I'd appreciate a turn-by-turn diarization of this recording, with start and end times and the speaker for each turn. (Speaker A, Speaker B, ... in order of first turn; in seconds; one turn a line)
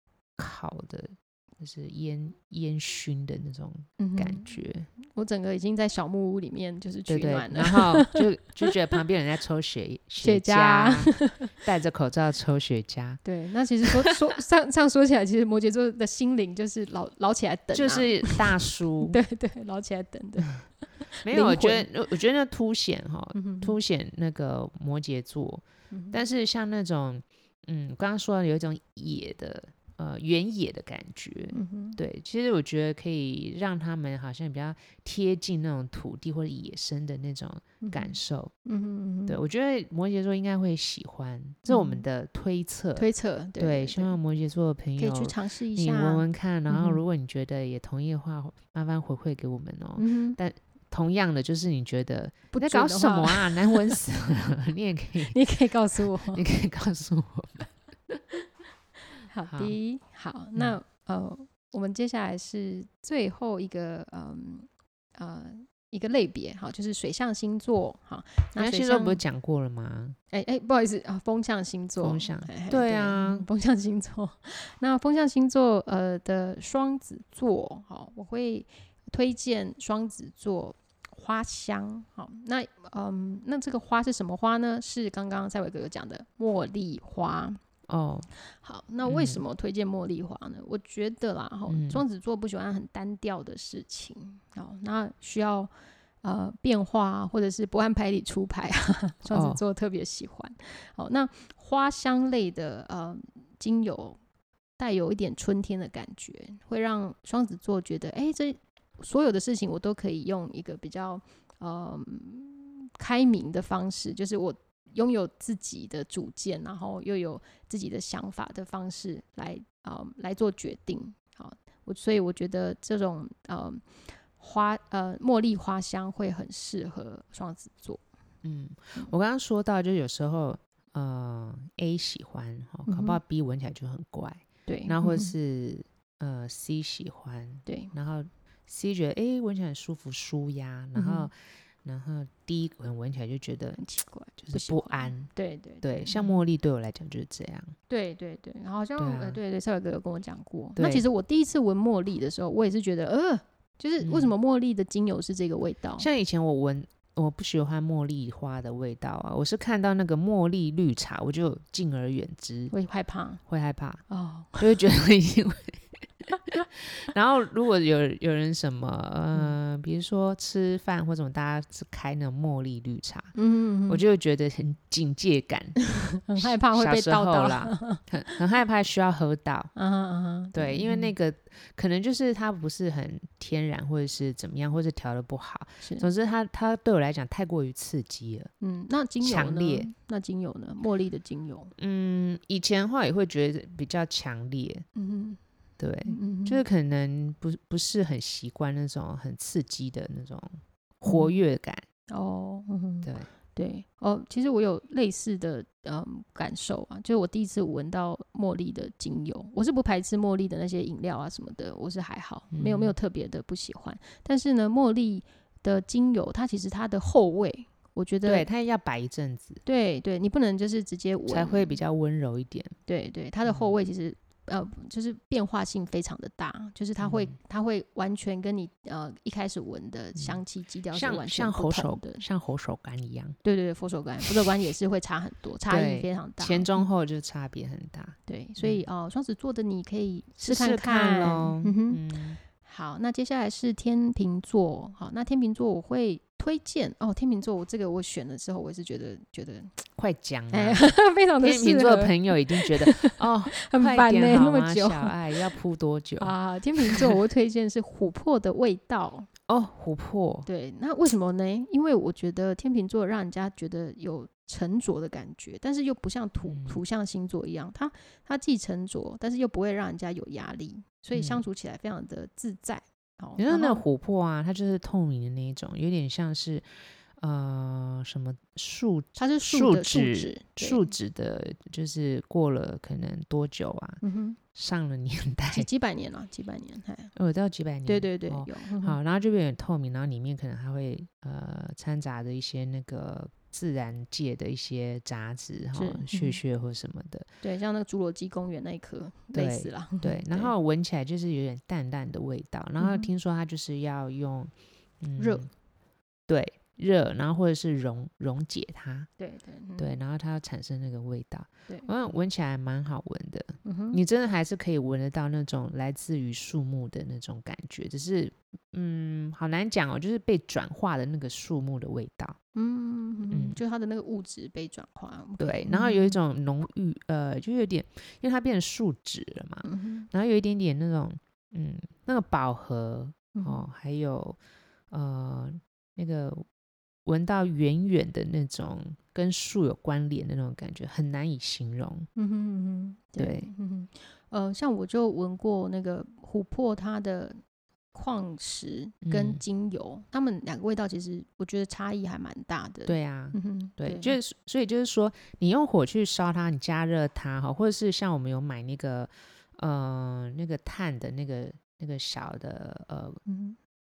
Speaker A: 0.4-4.9
Speaker B: 4.0-8.2
Speaker A: 7.1-13.2
Speaker B: 10.2-11.5
Speaker B: 13.2-21.9
Speaker A: 17.7-19.2
Speaker A: 21.2-38.5
Speaker B: 23.3-23.8
Speaker B: 25.9-26.2
Speaker B: 31.5-32.0
Speaker B: 37.8-39.4
Speaker A: 39.3-43.1
Speaker B: 41.6-42.0
Speaker B: 43.0-44.1
Speaker A: 43.6-55.4
Speaker B: 45.0-47.0
Speaker B: 50.0-50.4
Speaker B: 52.5-54.0
Speaker B: 55.3-56.4
Speaker A: 56.3-58.2
Speaker B: 59.3-69.2
Speaker A: 59.5-59.8
Speaker A: 68.5-70.2
Speaker B: 70.3-87.6
Speaker A: 72.0-73.5
Speaker A: 87.9-88.3
Speaker B: 88.5-95.7
Speaker A: 89.0-89.4
Speaker A: 91.7-92.0
Speaker B: 96.2-104.2
Speaker A: 99.3-99.6
Speaker B: 104.8-128.0
Speaker A: 128.4-143.8
Speaker B: 132.9-133.2
Speaker B: 134.7-135.3
Speaker B: 137.7-137.9
Speaker B: 140.9-141.3
Speaker B: 143.8-146.3
Speaker A: 144.4-147.7
Speaker B: 147.9-156.1
Speaker A: 149.0-149.4
Speaker A: 150.8-151.0
Speaker A: 154.0-154.3
Speaker A: 156.0-162.7
Speaker B: 162.7-163.4
Speaker A: 163.5-164.0
Speaker B: 164.1-164.6
Speaker A: 164.6-173.3
Speaker B: 173.3-174.0
Speaker A: 173.9-179.7
Speaker B: 176.2-178.0
Speaker B: 179.7-181.1
Speaker A: 180.5-188.5
Speaker B: 185.8-186.1
Speaker B: 188.6-191.7
Speaker A: 189.2-189.9
Speaker A: 191.8-194.8
Speaker B: 194.9-195.4
Speaker A: 195.8-201.8
Speaker B: 196.0-196.6
Speaker B: 201.1-201.3
Speaker B: 202.1-218.5
Speaker A: 203.0-203.3
Speaker A: 212.5-212.9
Speaker A: 218.2-219.6
Speaker B: 219.6-221.8
Speaker A: 221.3-222.8
Speaker B: 222.9-232.2
Speaker A: 223.5-223.7
Speaker A: 227.0-227.3
Speaker A: 230.9-233.4
Speaker B: 233.4-236.8
Speaker A: 235.7-238.8
Speaker B: 238.3-242.0
Speaker A: 240.4-242.4
Speaker B: 242.6-249.8
Speaker A: 249.9-256.3
Speaker B: 250.5-255.1
Speaker B: 256.2-259.3
Speaker A: 259.5-260.5
Speaker B: 260.4-273.8
Speaker A: 266.4-266.8
Speaker A: 271.1-271.4
Speaker A: 273.4-276.7
Speaker A: 277.2-284.0
Speaker B: 279.2-280.9
Speaker B: 284.0-284.4
Speaker A: 284.5-285.7
Speaker B: 285.5-287.1
Speaker A: 287.1-297.3
Speaker B: 287.9-289.0
Speaker B: 295.7-296.4
Speaker B: 297.4-300.5
Speaker A: 299.3-305.5
Speaker B: 302.8-303.1
Speaker B: 305.2-305.5
Speaker A: 306.3-309.1
Speaker B: 309.2-310.0
Speaker A: 309.8-322.4
Speaker B: 313.6-314.0
Speaker B: 322.5-326.2
Speaker A: 323.3-323.6
Speaker A: 325.4-334.4
Speaker B: 329.6-330.1
Speaker B: 333.3-333.6
Speaker A: 334.9-336.4
Speaker A: 337.0-342.1
Speaker B: 342.1-347.4
Speaker A: 343.2-343.5
Speaker B: 347.9-354.2
Speaker A: 349.0-349.4
Speaker A: 352.9-363.2
Speaker B: 363.2-363.6